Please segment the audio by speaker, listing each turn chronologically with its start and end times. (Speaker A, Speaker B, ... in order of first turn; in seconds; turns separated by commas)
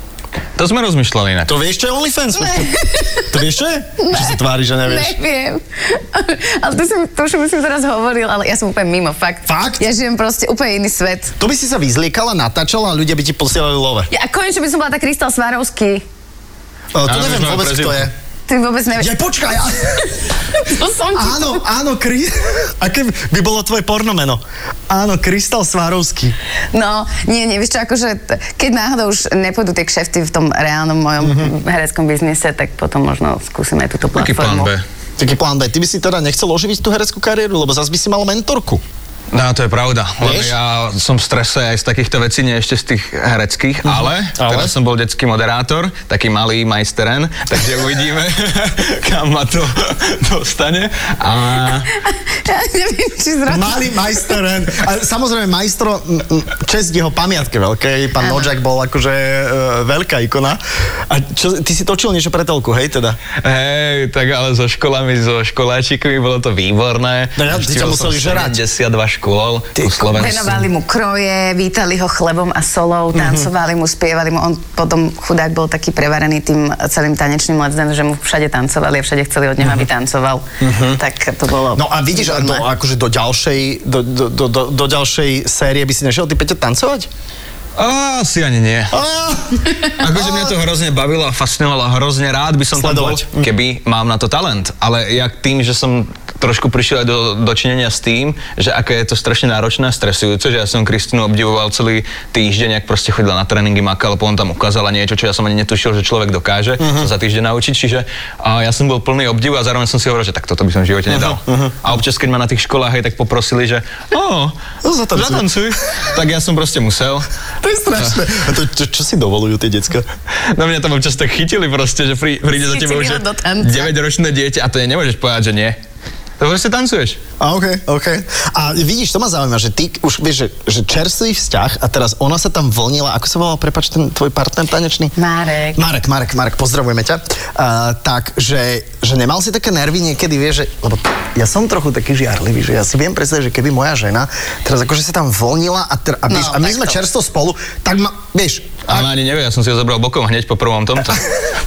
Speaker A: 0.6-1.5, Speaker B: 1.4-5.2, Speaker C: 2.4-3.3, Speaker C: 4.0-11.3, Speaker B: 9.5-9.8, Speaker B: 11.4-14.1, Speaker C: 14.1-16.0, Speaker B: 16.9-18.1, Speaker A: 17.1-18.1, Speaker C: 18.5-19.2, Speaker B: 19.0-20.1, Speaker C: 20.5-21.6, Speaker B: 21.1-26.4, Speaker C: 26.7-34.7, Speaker B: 31.2-31.5, Speaker A: 34.1-34.8, Speaker B: 35.2-38.8, Speaker A: 39.3-51.9, Speaker B: 40.2-40.5, Speaker B: 43.9-44.7, Speaker C: 51.9-54.2, Speaker B: 53.5-63.2, Speaker C: 58.2-58.5, Speaker A: 63.4-70.7, Speaker B: 67.4-68.6, Speaker B: 69.8-70.1, Speaker C: 70.1-82.7, Speaker B: 73.1-73.5, Speaker B: 80.6-81.0, Speaker B: 81.7-87.1, Speaker A: 87.8-89.0, Speaker B: 88.9-90.5, Speaker A: 89.9-114.5, Speaker B: 92.8-93.5, Speaker B: 106.8-107.1, Speaker B: 111.1-111.7, Speaker B: 114.8-115.5, Speaker A: 115.1-117.3, Speaker B: 117.6-120.1, Speaker A: 120.5-125.8, Speaker C: 122.5-123.9, Speaker A: 126.4-127.2, Speaker B: 127.4-135.1, Speaker C: 135.2-135.8, Speaker B: 135.8-149.1, Speaker C: 146.3-147.0, Speaker A: 148.9-151.2